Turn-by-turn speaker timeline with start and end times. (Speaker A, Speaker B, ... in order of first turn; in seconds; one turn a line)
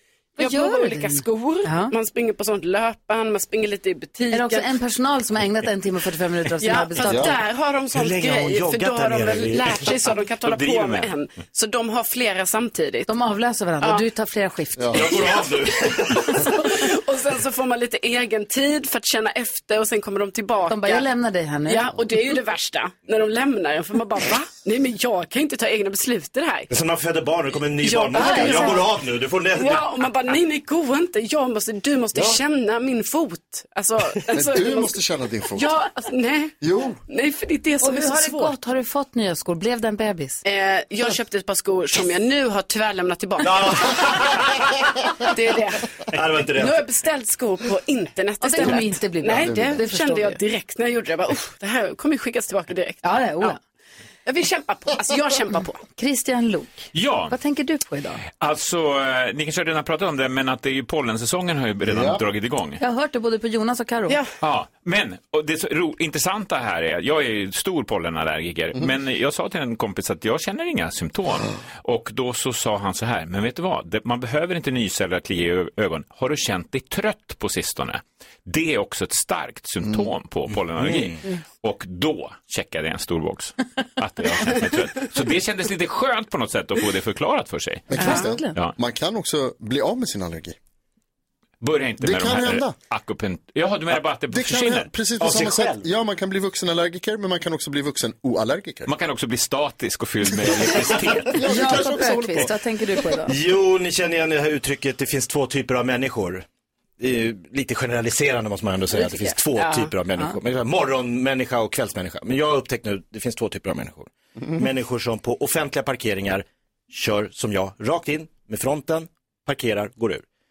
Speaker A: 0.4-1.9
Speaker B: 0.4-4.7
Speaker A: 4.3-7.4
Speaker B: 6.6-13.1
Speaker C: 7.0-7.3
Speaker D: 7.9-10.0
Speaker E: 10.2-11.1
Speaker A: 13.1-15.2
Speaker C: 14.8-15.1
Speaker D: 14.9-16.4
Speaker B: 15.0-21.1
Speaker A: 20.7-21.8
Speaker B: 21.7-26.7
Speaker D: 26.7-29.9
Speaker B: 27.8-28.9
Speaker A: 28.2-28.8
Speaker B: 29.6-35.0
Speaker C: 34.3-35.7
Speaker B: 35.5-36.5
Speaker C: 36.6-37.0
Speaker B: 37.1-38.5
Speaker A: 37.8-40.4
Speaker B: 40.4-44.1
Speaker D: 43.4-44.7
Speaker B: 45.2-45.8
Speaker D: 46.1-46.8
Speaker B: 46.5-53.5
Speaker A: 48.4-50.4
Speaker C: 49.3-49.8
Speaker A: 53.0-53.6
Speaker B: 54.3-55.8
Speaker A: 56.0-58.2
Speaker E: 56.9-57.4
Speaker E: 58.3-62.8
Speaker C: 61.9-62.2
Speaker A: 62.8-64.2
Speaker E: 64.4-88.8
Speaker D: 80.8-81.2
Speaker C: 87.9-90.6
Speaker A: 88.0-88.6
Speaker E: 91.6-94.9
Speaker C: 92.0-92.8
Speaker C: 94.3-98.9
Speaker D: 95.2-95.9
Speaker E: 98.9-101.5
Speaker C: 101.0-102.5
Speaker A: 101.4-103.3
Speaker D: 103.2-106.5
Speaker D: 107.0-120.2
Speaker B: 109.6-109.9